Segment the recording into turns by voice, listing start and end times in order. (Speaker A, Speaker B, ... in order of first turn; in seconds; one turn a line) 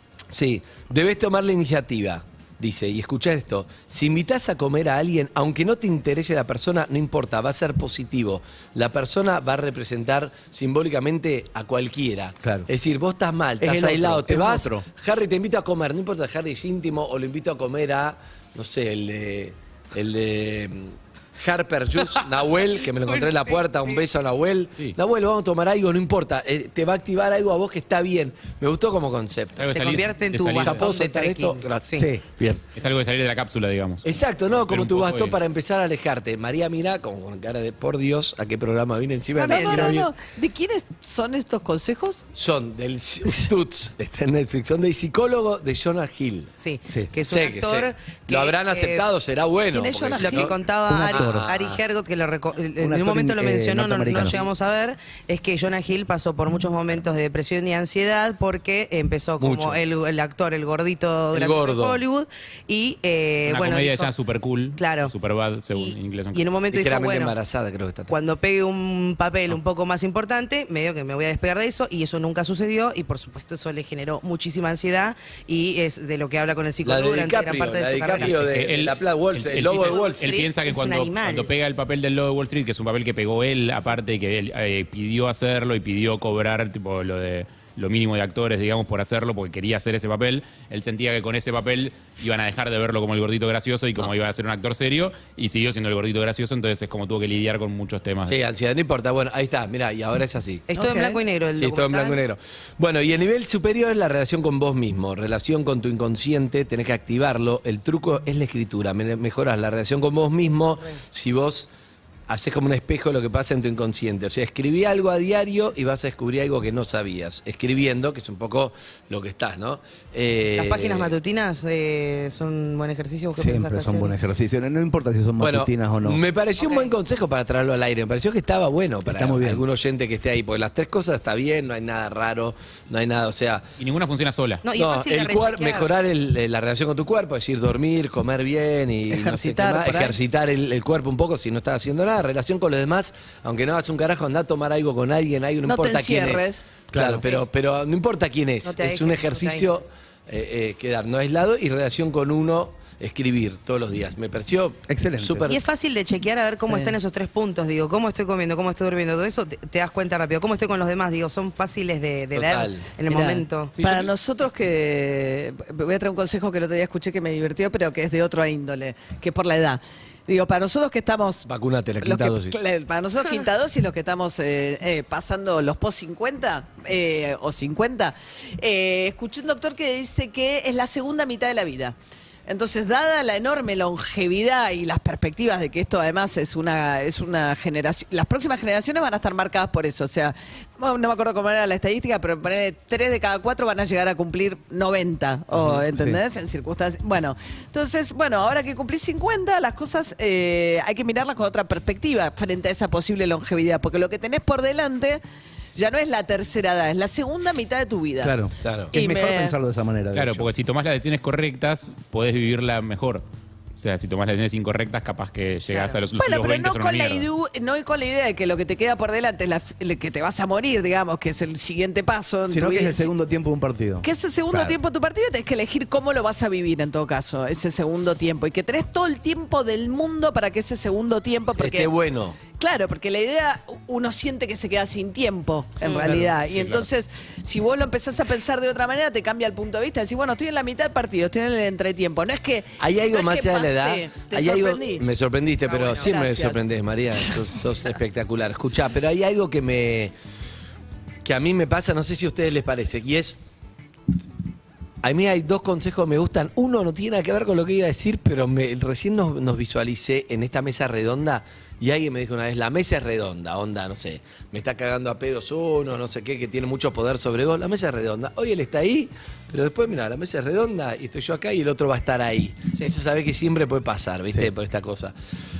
Speaker A: 0.3-32.0
Speaker B: 12.4-12.7
Speaker B: 13.6-14.8
Speaker C: 29.6-30.8
Speaker D: 29.7-32.1
Speaker B: 32.0-32.6
Speaker C: 32.7-35.4
Speaker A: 34.0-40.1
Speaker D: 39.4-40.0
Speaker E: 39.5-42.2
Speaker A: 42.3-46.5
Speaker D: 46.6-49.0
Speaker A: 47.2-50.6
Speaker E: 49.7-50.5
Speaker D: 50.2-64.1
Speaker B: 50.9-51.5
Speaker A: 51.1-51.8
Speaker B: 52.8-54.4
Speaker A: 59.4-59.8
Speaker A: 61.3-62.0
Speaker C: 63.5-66.5
Speaker D: 64.8-65.1
Speaker D: 65.7-67.3
Speaker A: 66.7-68.1
Speaker D: 68.1-78.3
Speaker A: 76.8-80.3
Speaker C: 78.2-98.4
Speaker D: 79.8-81.5
Speaker A: 98.3-100.7
Speaker D: 100.7-102.2
Speaker E: 100.7-101.2
Speaker A: 101.5-111.7
Speaker A: 112.3-121.1
Speaker D: 120.5-124.1
Speaker B: 123.3-126.2
Speaker A: 125.4-133.7
Speaker D: 126.6-126.9
Speaker B: 129.0-129.6
Speaker C: 133.8-134.6
Speaker D: 134.6-135.9
Speaker A: 134.7-155.6
Speaker E: 139.1-140.2
Speaker E: 145.6-146.8
Speaker B: 146.9-147.2
Speaker D: 148.6-149.7
Speaker B: 154.9-155.5
Speaker D: 155.4-163.7
Speaker A: 162.3-163.0
Speaker E: 163.1-171.5
Speaker C: 163.8-164.1
Speaker A: 171.4-172.6
Speaker E: 172.0-205.2
Speaker B: 195.9-196.2
Speaker E: 205.7-208.4
Speaker B: 208.2-210.5
Speaker A: 208.6-208.9
Speaker E: 208.9-209.6
Speaker C: 210.1-213.2
Speaker C: 213.8-217.3
Speaker D: 215.7-216.0
Speaker E: 216.1-223.1
Speaker B: 222.5-224.8
Speaker E: 224.0-245.0
Speaker A: 231.6-232.4
Speaker D: 235.8-236.1
Speaker A: 236.0-236.8
Speaker A: 242.8-250.1
Speaker E: 245.7-246.6
Speaker D: 245.7-246.1
Speaker A: 251.2-253.4
Speaker A: 255.0-275.1